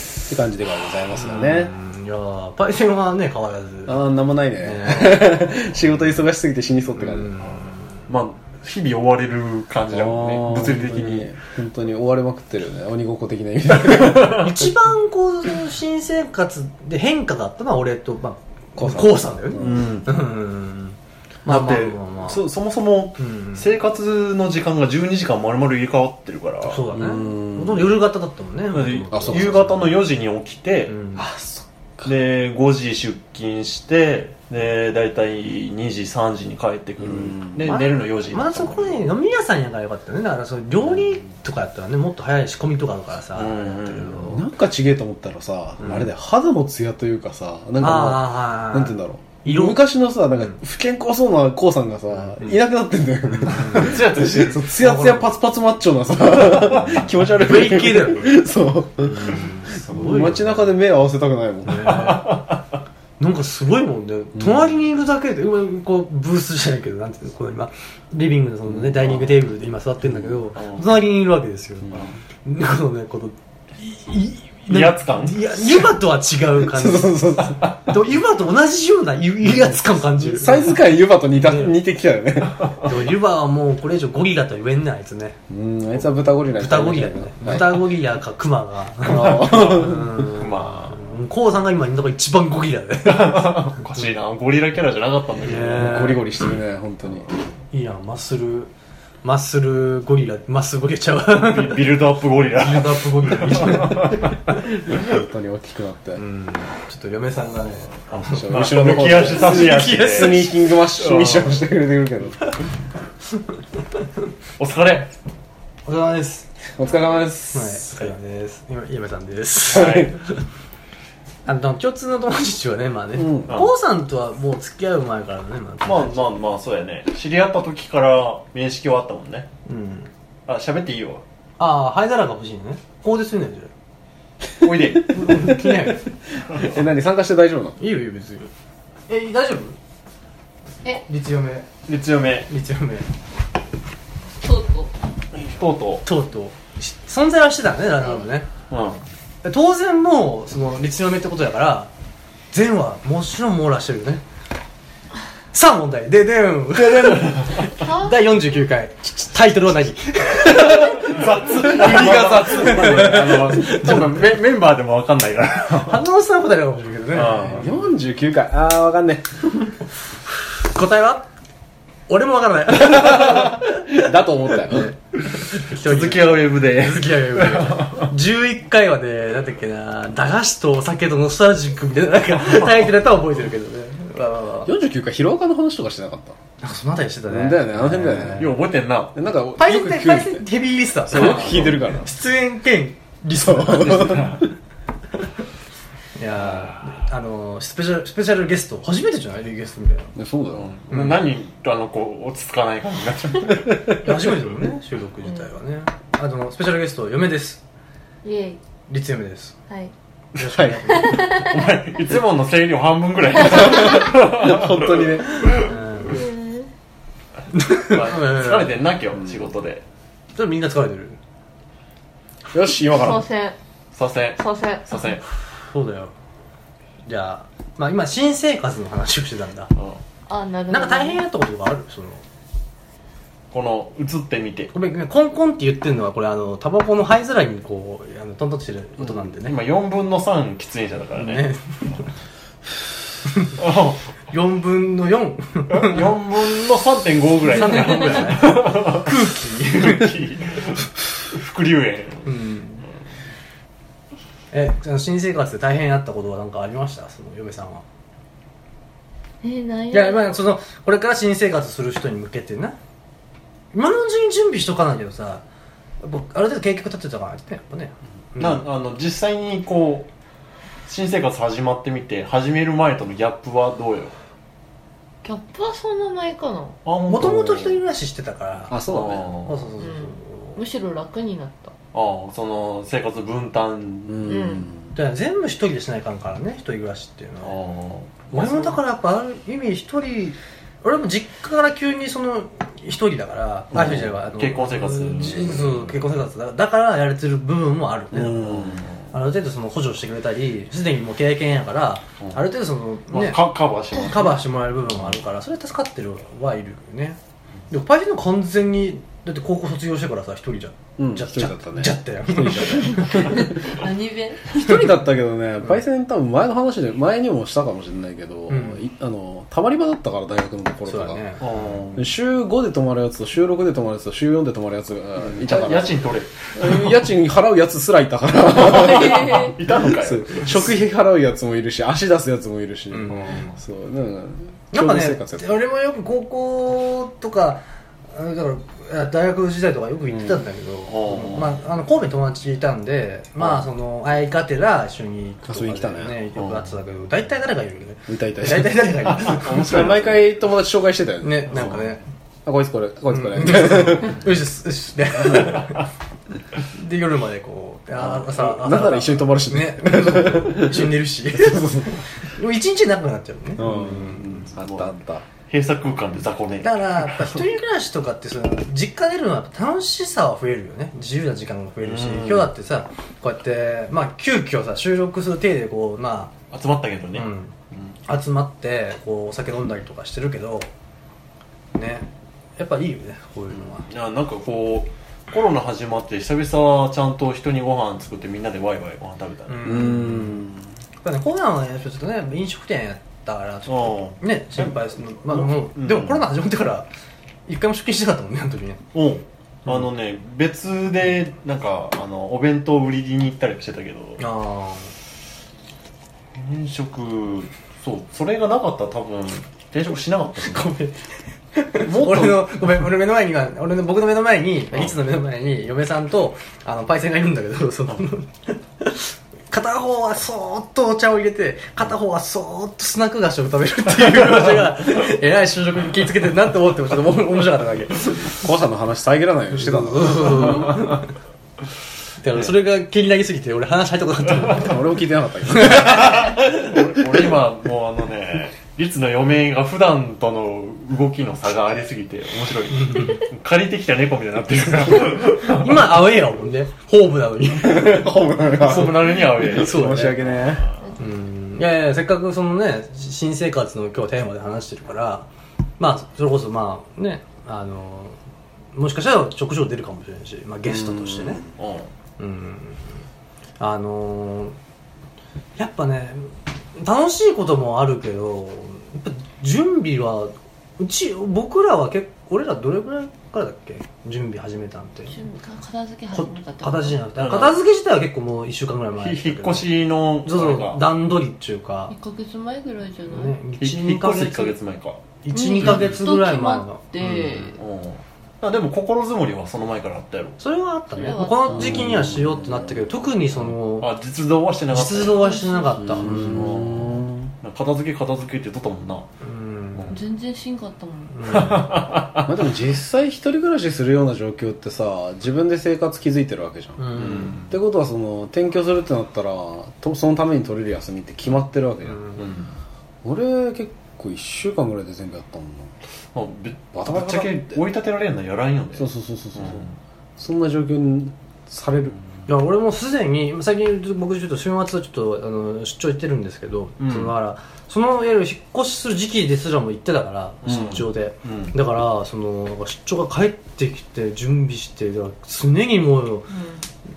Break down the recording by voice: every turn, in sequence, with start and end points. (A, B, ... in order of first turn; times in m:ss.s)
0:00.3-0:01.7 A
0:01.1-0:04.0 B
0:03.8-0:07.3 A
0:04.6-0:05.5 B
0:07.0-0:07.8 B
0:08.1-0:11.3 C
0:09.9-0:14.5 A
0:13.9-0:14.4 C
0:14.3-0:22.4 B
0:18.8-0:19.9 A
0:19.6-0:20.1 C
0:21.4-0:26.8 C
0:23.2-0:23.6 B
0:26.6-0:29.8 B
0:26.9-0:27.9 A
0:28.7-0:30.9 C
0:29.1-0:29.9 A
0:30.9-0:31.2 B
0:31.2-0:32.1 A
0:32.0-0:39.1 C
0:37.0-0:37.7 A
0:37.6-0:44.4 B
0:43.3-0:44.3 C
0:44.3-1:02.1 A
0:45.8-0:46.1 B
0:47.8-0:49.8 B
0:53.3-0:54.2 B
0:53.7-0:54.7 C
0:54.8-0:55.3 B
0:57.2-0:58.4 B
0:59.0-1:00.7 B
1:01.6-1:02.4 B
1:02.0-1:02.5 C
1:03.2-1:21.7 B
1:04.4-1:04.7 A
1:10.6-1:10.8 C
1:14.7-1:15.6 C
1:16.6-1:17.7 A
1:20.1-1:22.7 A
1:22.8-1:25.4 B
1:25.5-1:27.8 A
1:26.5-1:33.6 B
1:29.0-1:30.2 A
1:29.2-1:31.0 C
1:33.0-1:36.2 C
1:35.4-1:36.2 B
1:35.7-1:37.3 A
1:37.7-1:38.7 B
1:39.2-1:41.9 B
1:41.3-1:44.3 C
1:42.5-1:44.3 B
1:44.9-1:46.2 A
1:46.2-1:50.5 B
1:48.1-1:51.6 C
1:48.3-1:52.5 A
1:54.6-1:55.1 C
1:55.8-1:56.5 B
1:56.8-1:58.1 A
1:57.5-2:00.4 B
1:59.7-2:00.1 C
1:59.7-2:00.1 A
2:01.4-2:06.3 B
2:03.1-2:03.6 A
2:05.8-2:09.5 C
2:09.6-2:10.1 B
2:10.5-2:11.2 C
2:11.6-2:13.7 B
2:14.6-2:15.2 C
2:15.0-2:16.0 B
2:15.2-2:17.8 A
2:17.8-2:18.5 B
2:19.1-2:19.8 B
2:21.0-2:21.7 B
2:21.9-2:22.5 C
2:22.5-2:23.1 B
2:24.4-2:24.9 D
2:25.3-2:26.0 C
2:26.0-2:28.5 B
2:28.7-2:29.0 C
2:29.4-2:31.9 B
2:32.5-2:34.2 B
2:35.5-2:44.3 B
2:36.8-2:37.7 C
2:37.7-2:38.2 D
2:40.6-2:46.0 C
2:41.6-2:43.6 A
2:45.8-2:47.9 B
2:47.1-2:47.7 C
2:47.5-2:49.3 A
2:50.5-2:51.3 B
2:52.1-3:04.7 B
2:52.8-2:54.9 A
2:55.6-2:58.1 C
3:02.5-3:02.8 C
3:04.6-3:06.4 A
3:06.6-3:08.6 B
3:07.3-3:08.5 A
3:08.3-3:09.2 C
3:09.1-3:10.4 A
3:09.6-3:14.4 B
3:11.0-3:12.1 A
3:11.1-3:11.8 C
3:13.4-3:14.4 A
3:13.9-3:14.3 C
3:16.2-3:20.1 B
3:20.1-3:20.7 A
3:20.6-3:23.9 C
3:20.9-3:21.2 B
3:24.0-3:27.6 B
3:28.2-3:28.6 D
3:28.9-3:29.6 B
3:30.3-3:31.3 B
3:30.4-3:31.0 A
3:30.9-3:31.6 D
3:31.2-3:35.6 C
3:33.5-3:35.5 A
3:35.5-3:36.2 B
3:36.0-3:36.7 D
3:37.5-3:38.7 B
3:37.8-3:39.8 C
3:40.3-3:41.2 B
3:42.5-3:43.2 A
3:42.7-3:43.6 D
3:43.9-3:45.2 C
3:44.4-3:45.2 D
3:45.5-3:46.1 B
3:47.0-3:49.7 B
3:49.8-3:50.0 C
3:50.3-3:51.2 D
3:50.7-3:52.2 B
3:53.5-3:54.7 C
3:54.7-3:59.6 B
3:59.0-4:01.5 C
4:01.2-4:02.1 B
4:03.6-4:04.0 C
4:04.3-4:06.1 B
4:05.7-4:12.3 C
4:07.5-4:10.2 B
4:12.2-4:12.8 B
4:14.5-4:17.8 B
4:19.4-4:20.4 D
4:19.9-4:22.8 B
4:23.7-4:25.4 B
4:26.0-4:28.6 B
4:28.4-4:30.1 C
4:30.8-4:34.1 C
4:35.2-4:36.8 D
4:36.8-4:37.8 C
4:37.1-4:40.6 B
4:38.7-4:39.4 A
4:38.8-4:39.6 C
4:39.8-4:41.7 D
4:41.9-4:44.4 C
4:44.1-4:44.9 A
4:44.2-4:44.7 D
4:44.9-4:47.6 B
4:47.4-4:48.8 C
4:48.3-5:03.4 B
4:53.7-4:56.0 C
4:58.1-4:58.8 A
4:58.3-4:59.0 C
5:03.1-5:04.4 C
5:03.9-5:07.2 B
5:07.7-5:13.5 B
5:11.0-5:13.6 A
5:13.1-5:15.0 D
5:14.5-5:21.2 A
5:18.5-5:18.8 B
5:20.8-5:21.4 B
5:21.4-5:22.0 C
5:21.9-5:26.0 A
5:25.3-5:27.0 C
5:26.5-5:35.4 A
5:28.6-5:30.7 C
5:29.1-5:29.5 D
5:32.9-5:33.5 B
5:34.7-5:49.9 B
5:40.9-5:41.5 C
5:45.5-5:46.2 A
5:46.4-5:46.7 C
5:48.1-5:51.8 A
5:49.3-5:50.2 C
5:51.2-5:52.0 B
5:52.4-5:54.2 A
5:53.1-5:55.9 B
5:56.7-6:04.5 B
5:58.0-6:01.9 A
6:03.6-6:05.2 A
6:04.5-6:04.9 C
6:05.5-6:07.4 C
6:06.6-6:16.3 B
6:11.8-6:12.5 C
6:16.5-6:17.9 C
6:17.1-6:17.5 B
6:18.0-6:20.7 B
6:21.7-6:23.9 B
6:23.8-6:30.0 C
6:29.5-6:30.4 B
6:29.6-6:30.7 A
6:31.0-6:36.9 B
6:33.7-6:36.2 C
6:37.5-6:38.8 B
6:38.9-6:44.2 C
6:44.2-6:44.9 B
6:46.3-6:50.7 C
6:50.4-7:08.4 B
6:51.8-6:52.6 C
7:08.4-7:10.8 A
7:09.5-7:11.1 B
7:12.2-7:14.8 B
7:14.5-7:16.2 A
7:15.5-7:16.7 B
7:15.7-7:25.9 C
7:22.7-7:23.2 B
7:25.4-7:30.3 B
7:27.6-7:30.7 A
7:28.5-7:30.8 C
7:31.0-7:35.3 B
7:35.8-7:38.2 B
7:38.7-7:41.4 B
7:40.7-7:41.5 A
7:41.6-7:41.9 C
7:42.2-7:43.0 B
7:43.6-7:44.6 B
7:45.6-7:55.2 B
7:55.1-7:57.0 D
7:56.1-8:01.9 B
7:57.2-7:57.6 C
7:59.0-8:00.8 C
8:01.9-8:03.4 D
8:03.1-8:04.5 B
8:03.6-8:05.0 C
8:05.2-8:06.8 B
8:05.3-8:07.6 D
8:05.6-8:06.0 C
8:07.0-8:10.4 C
8:10.4-8:13.9 B
8:10.9-8:11.9 D
8:11.5-8:12.9 A
8:13.8-8:15.4 C
8:14.7-8:16.6 B
8:15.2-8:16.1 D
8:15.8-8:17.3 A
8:16.0-8:19.1 C
8:19.2-8:19.9 B
8:19.7-8:20.0 C
8:19.9-8:21.6 D
8:21.1-8:21.7 B
8:21.3-8:22.4 C
8:22.2-8:32.2 A
8:26.8-8:27.3 B
8:26.9-8:27.5 C
8:32.2-8:32.5 C
8:33.0-8:35.7 A
8:36.1-8:39.7 C
8:36.7-8:37.6 A
8:38.8-8:39.6 A
8:40.2-8:42.0 A
8:42.3-8:56.3 B
8:46.8-8:47.1 C
8:50.4-8:51.5 C
8:56.3-8:56.6 D